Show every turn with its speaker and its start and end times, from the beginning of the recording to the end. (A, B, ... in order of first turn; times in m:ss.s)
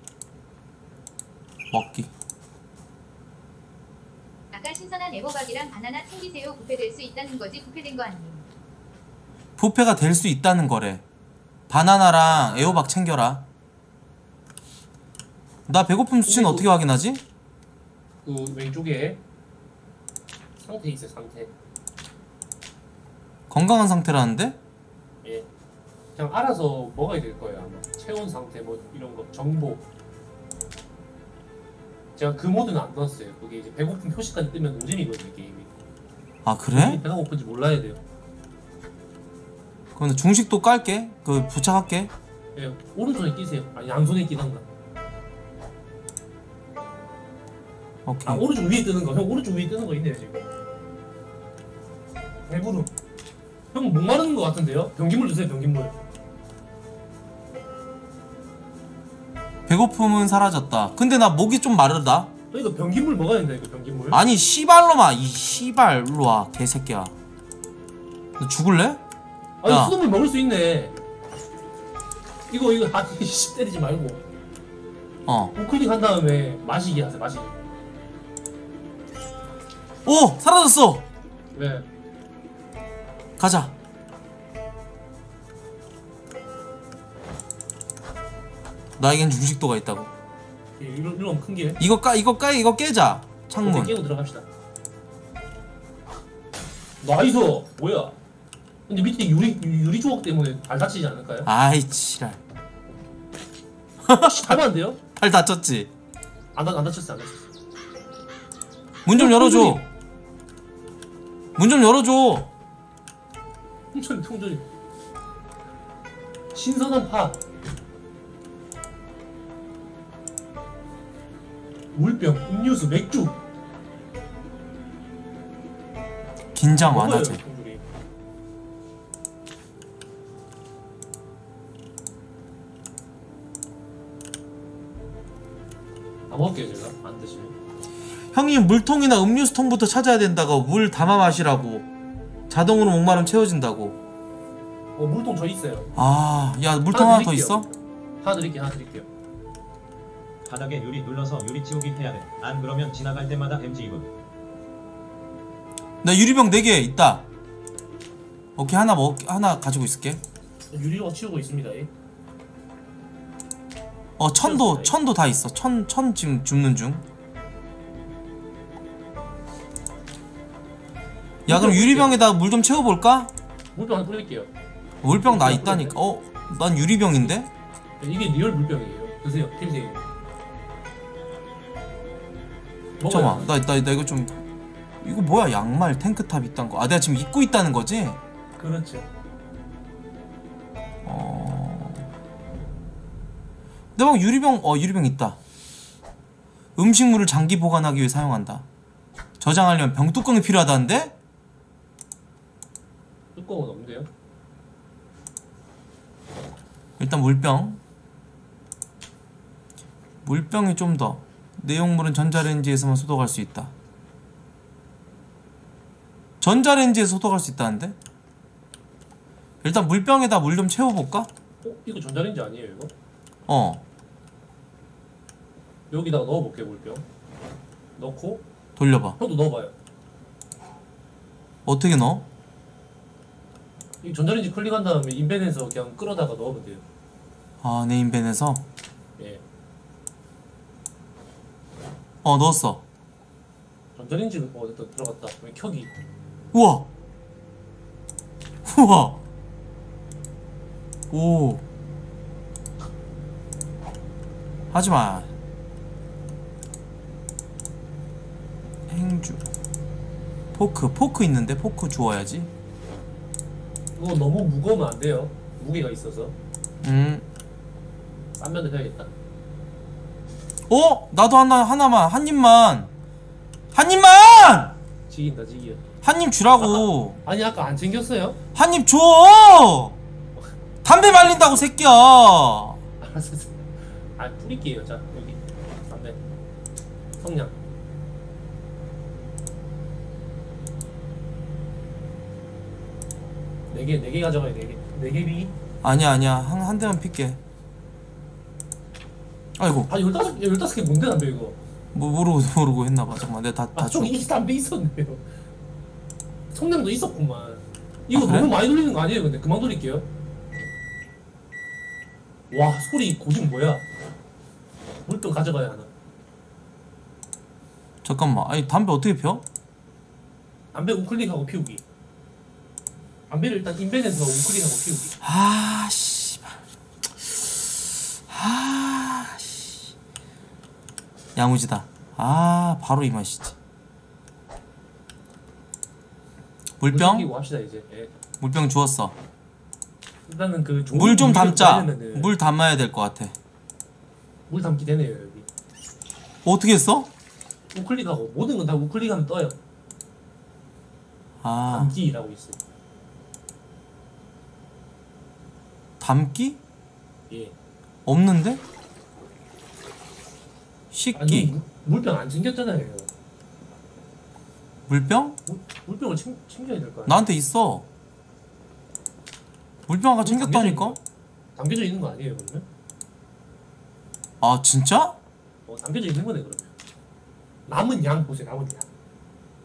0:01.7-0:02.1 A
0:04.5-0:08.5 B
0:09.6-0:11.0 A
0:11.7-0:13.5 A
0:12.3-0:12.9 C
0:15.7-0:17.2 A
0:16.3-0:16.7 C
0:18.2-0:19.2 C
0:20.6-0:21.5 C
0:23.5-0:24.6 A
0:26.2-0:29.8 C
0:32.2-0:35.7 C
0:36.4-0:37.0 A
0:36.7-0:38.0 C
0:40.0-0:42.1 A
0:42.6-0:44.6 C
0:48.0-0:48.4 A
0:48.2-0:50.5 C
0:52.5-0:52.9 C
0:53.7-0:56.0 C
0:59.7-1:02.3 A
1:02.5-1:04.2 C
1:04.1-1:07.1 A
1:08.4-1:09.0 A
1:09.6-1:11.0 C
1:09.7-1:10.0 A
1:12.5-1:14.2 C
1:15.3-1:15.5 A
1:15.6-1:17.6 C
1:20.0-1:21.0 A
1:21.5-1:21.9 C
1:23.4-1:23.7 A
1:29.0-1:30.1 A
1:30.8-1:31.8 C
1:31.8-1:34.0 A
1:33.6-1:34.5 C
1:37.0-1:38.2 C
1:38.9-1:41.5 C
1:41.5-1:42.4 A
1:44.0-1:44.6 A
1:44.2-1:45.0 C
1:45.2-1:45.9 A
1:46.6-1:47.5 C
1:49.0-1:49.8 A
1:49.1-1:49.9 C
1:51.6-1:52.5 A
1:53.9-1:54.6 C
1:56.5-1:57.4 C
2:01.9-2:03.4 C
2:06.6-2:07.4 A
2:06.8-2:07.8 C
2:16.3-2:17.6 C
2:18.3-2:21.9 A
2:22.5-2:24.0 A
2:25.0-2:25.9 C
2:26.0-2:27.7 A
2:26.9-2:29.1 C
2:30.4-2:34.1 D
2:36.0-2:37.3 A
2:38.6-2:40.2 A
2:40.7-2:41.9 C
2:44.2-2:47.0 A
2:44.4-2:45.0 C
2:51.5-2:53.3 A
2:51.5-2:52.2 C
2:53.8-2:54.5 C
2:55.0-2:57.5 A
2:55.2-2:56.0 C
2:58.0-3:00.0 C
3:03.0-3:03.5 C
3:03.1-3:04.4 A
3:05.0-3:08.2 A
3:08.6-3:09.1 C
3:11.0-3:12.1 A
3:14.0-3:15.4 A
3:16.8-3:18.7 A
3:19.4-3:21.2 A
3:23.4-3:24.1 C
3:27.0-3:27.8 A
3:30.2-3:33.7 A
3:36.4-3:38.0 A
3:39.6-3:41.3 A
3:41.6-3:42.9 C
3:43.5-3:43.8 A
3:45.9-3:47.1 C
3:48.0-3:48.4 C
3:48.8-3:49.2 A
3:49.2-3:49.7 C
3:51.7-3:52.3 A
3:54.0-3:56.8 C
3:57.6-3:58.7 A
3:59.2-3:59.4 C
4:02.2-4:02.8 A
4:04.0-4:05.9 C
4:06.5-4:06.9 A
4:08.6-4:09.2 A
4:11.1-4:11.6 A
4:14.7-4:15.3 A
4:18.9-4:19.5 A
4:20.5-4:22.5 A
4:24.0-4:26.4 C
4:26.8-4:27.3 A
4:28.4-4:29.1 C
4:30.7-4:32.9 A
4:33.7-4:34.8 A
4:35.1-4:35.8 C
4:36.0-4:37.2 A
4:36.6-4:38.4 C
4:38.6-4:40.0 A
4:40.4-4:41.7 C
4:40.8-4:42.8 A
4:43.0-4:43.7 C
4:44.2-4:46.2 C
4:47.2-4:47.5 C
4:53.7-4:55.6 C
4:55.8-4:57.4 A
4:59.6-4:59.9 A
4:59.9-5:01.6 C
5:01.9-5:04.1 A
5:03.8-5:05.2 C
5:06.5-5:10.1 C
5:08.1-5:08.5 A
5:12.5-5:13.8 C
5:15.1-5:15.9 C
5:18.0-5:19.4 A
5:20.7-5:21.8 C
5:23.3-5:25.2 C
5:25.2-5:26.6 A
5:27.2-5:29.9 A
5:31.4-5:33.6 A
5:36.8-5:37.3 A
5:36.9-5:38.1 C
5:38.4-5:39.2 A
5:40.3-5:42.3 C
5:40.9-5:43.4 A
5:44.5-5:45.5 C
5:46.4-5:47.1 A
5:47.7-5:49.6 C
5:51.4-5:52.0 A
5:51.7-5:52.6 C
5:56.0-5:56.6 A
5:57.3-5:57.6 C
5:58.1-5:58.6 A
6:00.9-6:01.5 A
6:01.2-6:03.1 C
6:04.9-6:05.4 A
6:05.5-6:07.3 C
6:07.1-6:07.9 A
6:09.9-6:11.0 A
6:10.2-6:11.0 C
6:11.6-6:12.7 C
6:14.4-6:15.2 A
6:15.7-6:16.7 C
6:17.7-6:18.9 C